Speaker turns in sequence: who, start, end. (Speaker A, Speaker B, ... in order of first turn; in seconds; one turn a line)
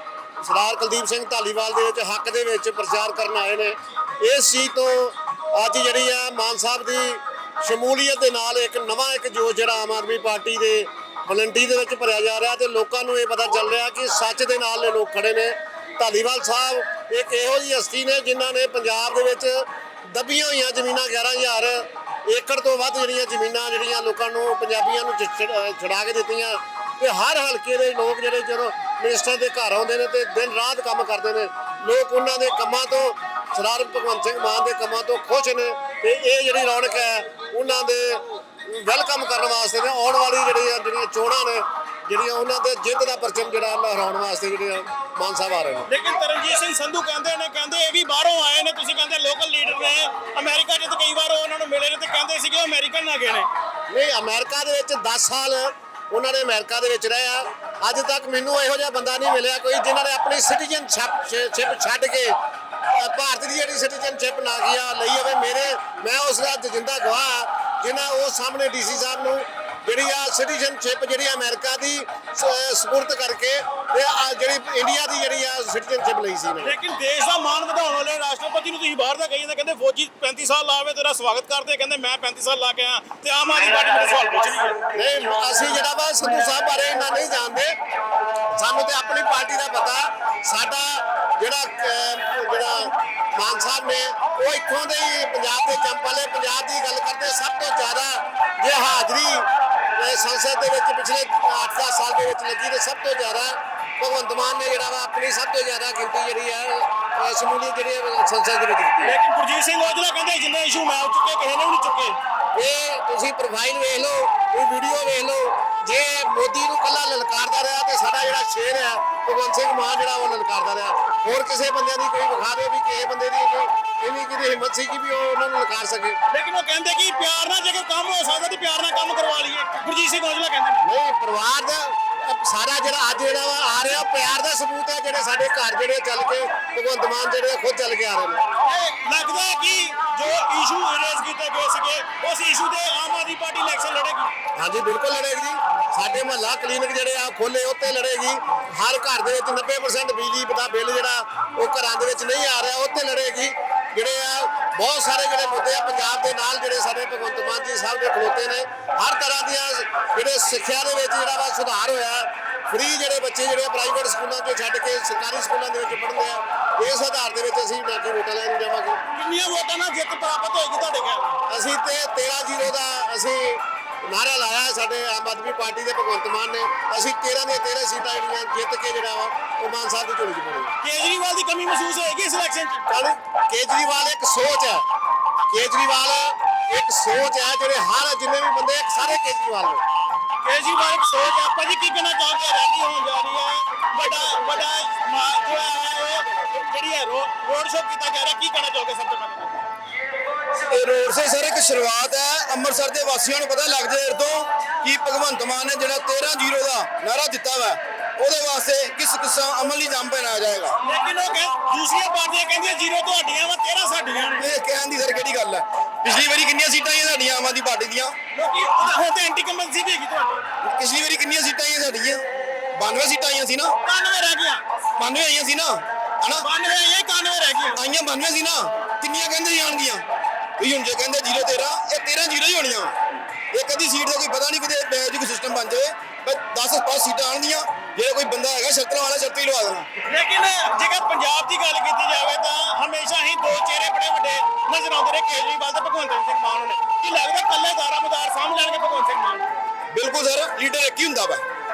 Speaker A: 0.4-45.9
Speaker B: 45.9-53.5
Speaker A: 53.9-62.4
Speaker A: 62.9-76.8
Speaker B: 76.6-84.8
Speaker A: 84.9-87.7
Speaker A: 88.6-109.1
Speaker B: 109.0-112.2
Speaker A: 112.6-126.2
Speaker B: 126.3-130.9
Speaker A: 130.8-138.4
Speaker B: 138.6-144.3
Speaker A: 144.6-169.0
Speaker B: 169.1-171.4
Speaker A: 171.5-180.7
Speaker B: 180.8-182.9
Speaker A: 182.9-184.8
Speaker A: 185.5-189.8
Speaker B: 190.4-199.7
Speaker C: 200.7-210.8
Speaker B: 210.8-214.4
Speaker C: 214.4-218.1
Speaker B: 218.3-220.3
Speaker C: 220.6-222.2
Speaker C: 222.7-223.7
Speaker B: 223.8-224.6
Speaker C: 225.0-226.5
Speaker B: 226.4-227.8
Speaker C: 227.8-230.0
Speaker C: 230.6-233.0
Speaker C: 233.5-239.9
Speaker B: 240.0-249.5
Speaker C: 249.9-251.4